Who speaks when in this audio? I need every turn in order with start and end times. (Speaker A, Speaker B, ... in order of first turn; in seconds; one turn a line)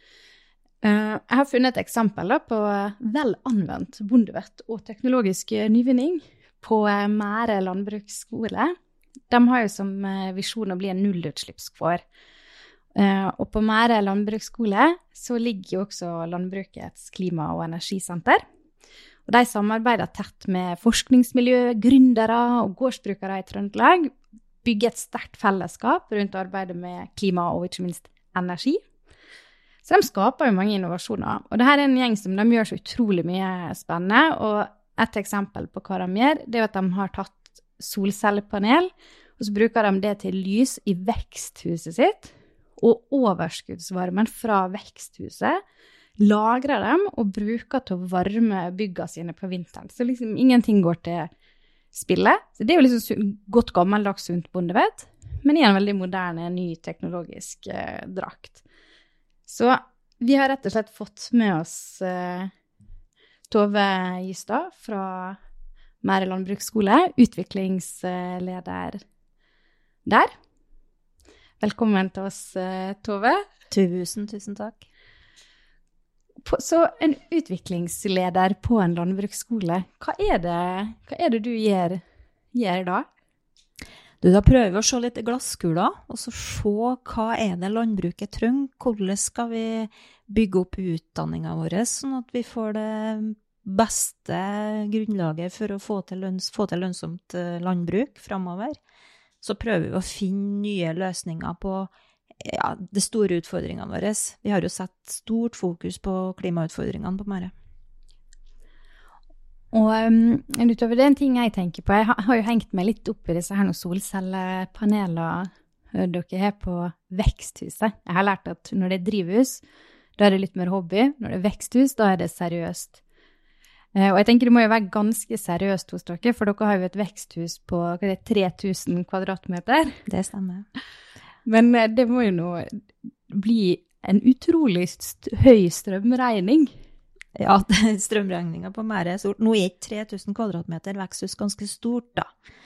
Speaker A: 0.8-8.7
Speaker A: 9.3-12.0
Speaker A: 12.9-18.4
Speaker A: 19.2-24.1
Speaker A: 24.6-28.8
Speaker A: 29.8-45.6
Speaker A: 46.2-51.3
Speaker A: 51.9-58.6
Speaker A: 59.5-62.5
Speaker A: 63.5-65.4
Speaker A: 66.0-69.0
Speaker A: 70.0-70.3
Speaker A: 71.6-73.4
Speaker B: 73.7-74.8
Speaker A: 76.4-82.0
Speaker A: 82.5-83.0
Speaker B: 84.2-98.8
Speaker B: 99.4-107.5
Speaker A: 109.7-119.6
Speaker A: 120.2-123.0
Speaker A: 123.9-130.0
Speaker B: 130.1-130.7
Speaker A: 131.4-136.8
Speaker B: 137.3-142.3